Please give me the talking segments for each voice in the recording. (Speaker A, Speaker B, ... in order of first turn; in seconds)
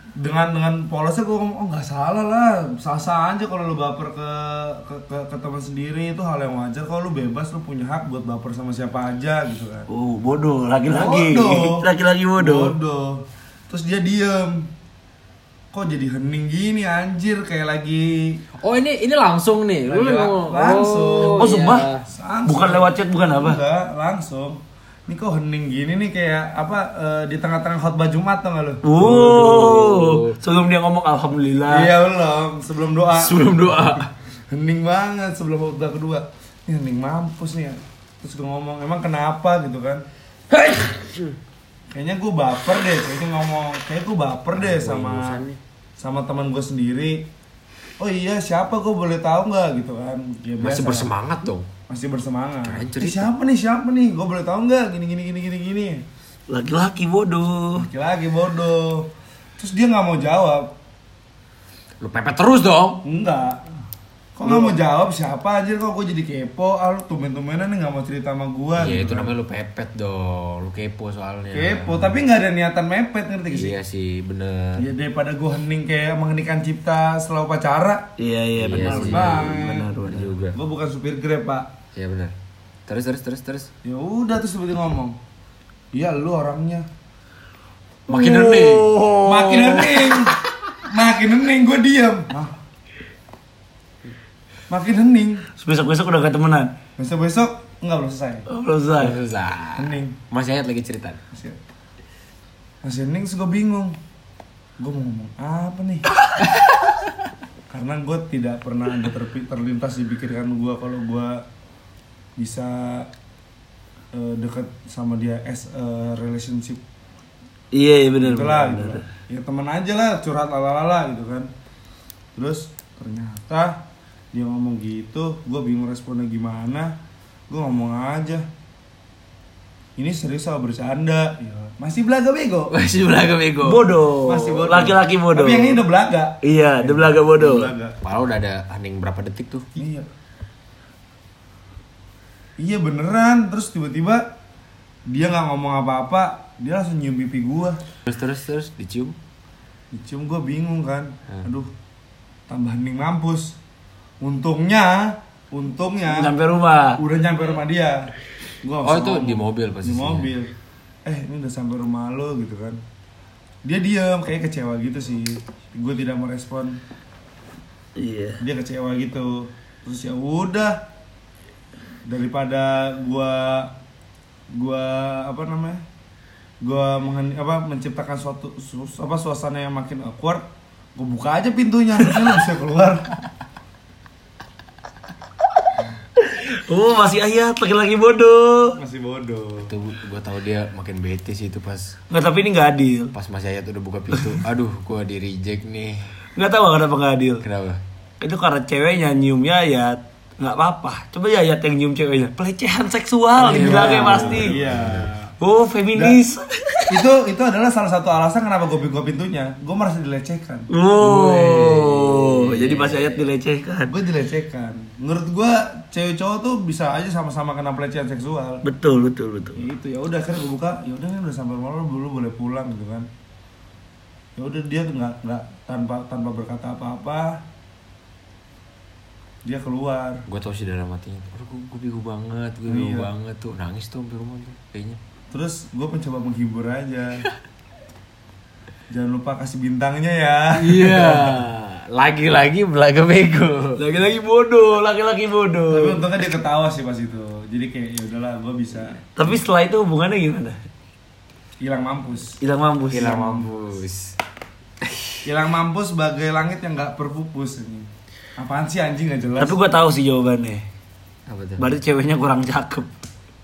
Speaker A: 0.2-9.9, 10.9-11.9, 12.4-14.7, 15.7-18.4, 19.9-21.5, 22.1-29.0, 31.7-40.0, 41.9-45.4, 46.0-47.3, 48.0-51.1, 51.9-56.0, 57.8-60.7, 63.0-63.6, 64.4-69.3, 71.5-73.8, 74.8-78.1, 78.8-79.9, 80.5-81.7, 83.8-85.2, 85.9-86.9, 89.2-92.5, 94.7-95.5, 97.0-98.5, 99.8-100.2, 101.3-101.6, 102.8-104.0, 104.8-106.1, 107.7-111.5, 112.4-113.1, 114.1-116.8, 118.2-121.5, 122.4-127.0, 127.5-128.5, 130.0-132.8, 134.2-138.0, 139.8-140.1, 142.6-144.3, 145.1-147.8, 149.9-151.7, 152.5-153.6, 154.2-156.3, 157.0-160.5, 161.1-162.8, 163.6-166.8, 168.4-170.8, 172.1-173.8, 174.5-175.8, 176.6-183.2, 188.8-189.7, 203.4-205.3, 206.9-210.7, 213.9-218.6, 219.6-223.1, 224.4-227.4, 229.4-230.2, 232.7-233.1, 235.3-237.3, 238.9-241.4, 245.7-249.0, 251.6-252.4, 252.9-253.5, 255.2-259.6
Speaker B: 9.9-12.8, 21.4-21.9, 22.5-23.6, 28.8-31.9, 56.5-57.9, 78.2-80.3, 88.1-90.2, 95.6-96.7, 98.5-99.2, 117.7-119.0, 133.6-135.8, 136.4-137.7, 156.1-157.0, 168.0-168.4, 186.2-188.8, 192.1-193.1, 196.4-197.4, 198.2-204.5, 205.4-207.0, 210.7-213.9, 218.6-219.6, 243.8-246.0, 249.2-250.6, 252.4-253.3, 259.4-260.6, 261.6-262.9
Speaker C: 18.6-22.1, 29.0-30.4, 33.2-34.1, 40.5-41.4, 44.5-45.6, 50.6-51.7, 52.6-53.3, 62.0-63.0, 68.8-72.2, 73.5-74.8, 78.6-80.6, 82.0-82.3, 82.9-83.7, 88.1-90.0, 99.0-101.2, 106.4-107.1, 132.7-133.9, 138.0-139.7, 148.1-149.2, 158.8-160.3, 189.7-192.0, 193.1-196.1, 197.4-197.8, 203.4-205.1, 211.0-213.3, 230.3-235.0, 240.6-243.8, 252.9-254.2, 254.8-255.2, 261.3-261.7